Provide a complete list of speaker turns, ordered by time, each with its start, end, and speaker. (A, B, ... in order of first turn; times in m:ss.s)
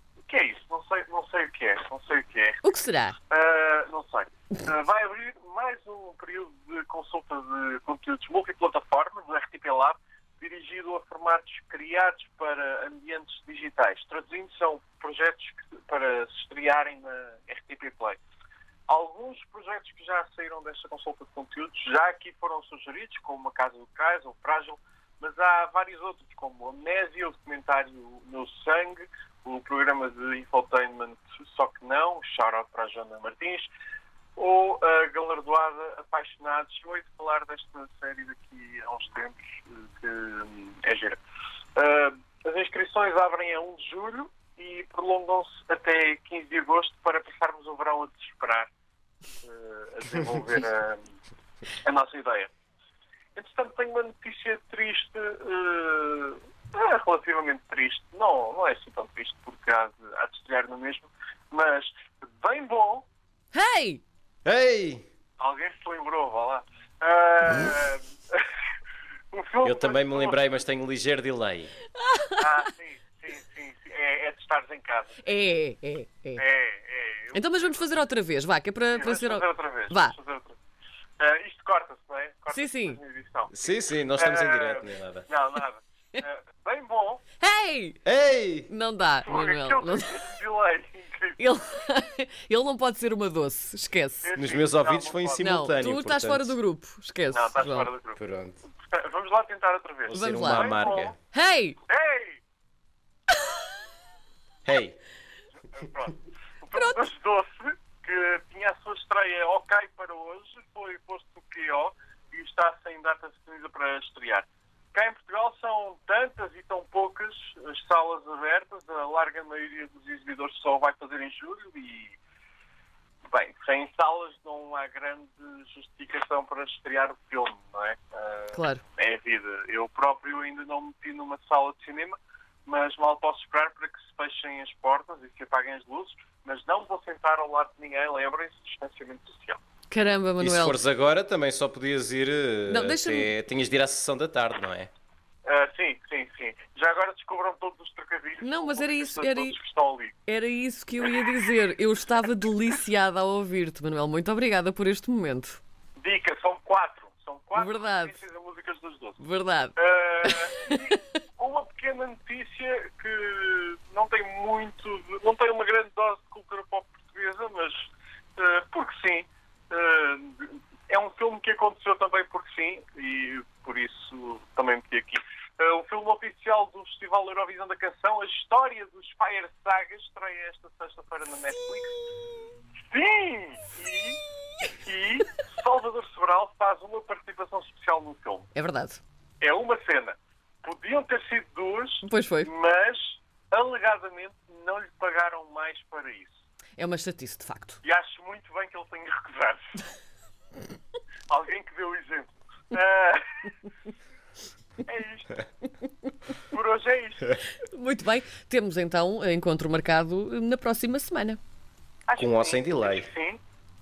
0:00.3-0:02.6 A
0:02.6-0:03.2 B
0:03.3-0:18.2 A
0:18.9-0:33.7 A
0:34.4-0:41.2 A
0:41.8-0:48.7 A
0:49.4-0:51.0 A
0:51.8-0:52.5 A
0:53.4-1:03.0 A
1:03.5-1:04.0 B
1:04.4-1:05.0 C
1:05.4-1:08.5 A
1:09.3-1:10.4 A
1:09.6-1:11.7 C
1:12.0-1:12.4 B
1:12.4-1:15.2 A
1:15.2-1:16.4 B
1:16.4-1:17.8 A
1:17.3-1:20.1 B
1:18.9-1:20.6 A
1:21.2-1:27.2 A
1:22.5-1:23.0 B
1:23.5-1:25.2 C
1:27.4-1:28.0 B
1:28.0-1:28.7 C
1:28.7-1:30.2 B
1:29.2-1:31.4 A
1:31.4-1:34.3 B
1:34.2-1:35.5 A
1:34.4-1:36.6 C
1:35.4-1:37.9 B
1:37.3-1:38.2 A
1:38.2-1:38.6 C
1:38.7-1:41.1 A
1:40.1-1:41.2 C
1:40.1-1:40.8 B
1:41.3-1:41.8 B
1:41.8-1:42.4 A
1:44.6-1:45.0 C
1:45.7-2:02.2 A
1:46.7-1:47.0 B
2:03.3-2:19.6 A
2:08.5-2:08.8 B
2:19.9-2:20.8 B
2:20.4-2:24.9 C
2:22.7-2:23.3 B
2:25.4-2:30.2 A
2:28.4-2:29.5 B
2:30.3-2:35.6 B
2:36.0-2:39.2 A
2:37.5-2:38.2 B
2:39.2-2:41.0 B
2:39.8-3:02.0 A
3:02.9-3:04.2 A
3:04.8-3:08.5 A
3:08.5-3:09.0 B
3:09.4-3:16.3 A
3:12.0-3:12.5 B
3:16.8-3:17.8 B
3:17.8-3:19.8 A
3:21.3-3:23.5 A
3:24.8-3:25.4 A
3:26.5-3:27.4 A
3:27.7-3:31.4 B
3:32.1-3:33.4 A
3:32.2-3:33.1 C